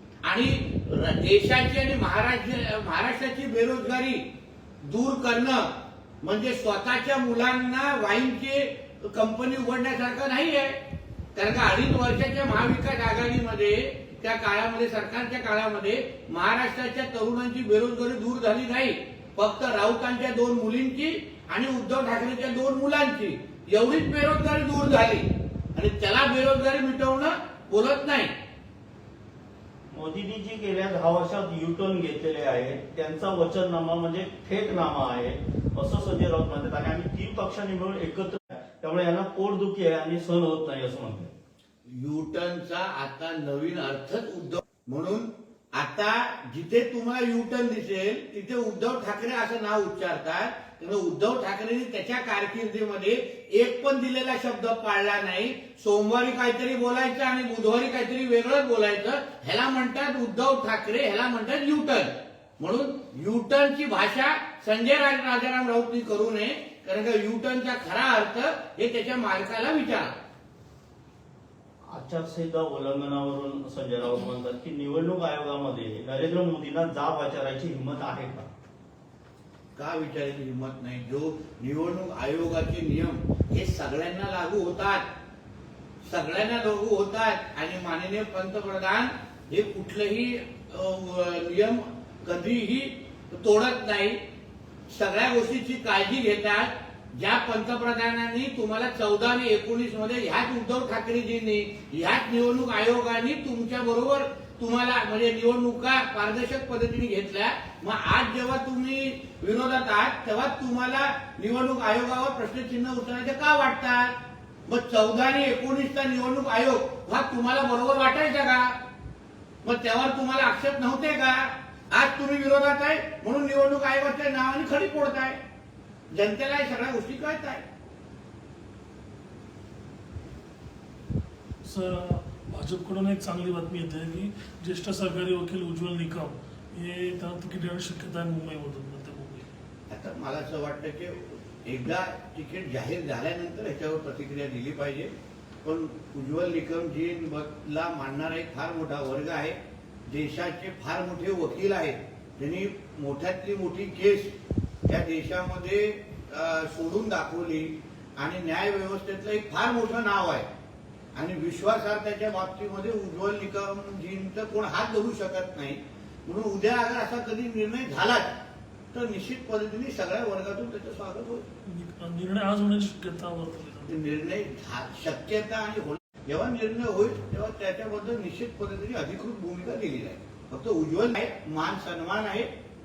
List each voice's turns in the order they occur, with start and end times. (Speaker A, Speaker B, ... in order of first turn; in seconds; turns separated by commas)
Speaker A: 0.2-4.2, Speaker A: 4.8-5.7, Speaker A: 6.2-10.8, Speaker A: 11.3-28.3, Speaker B: 29.9-41.3, Speaker A: 41.9-70.1, Speaker B: 71.9-78.5, Speaker A: 79.7-85.0, Speaker A: 86.1-94.2, Speaker A: 94.9-114.1, Speaker A: 114.7-118.7, Speaker A: 119.6-125.4, Speaker A: 126.1-127.6, Speaker C: 131.6-139.5, Speaker A: 139.9-145.1, Speaker A: 145.6-154.3, Speaker A: 154.8-160.4, Speaker A: 161.1-168.3, Speaker A: 168.9-171.4, Speaker C: 171.7-173.9, Speaker A: 173.8-182.5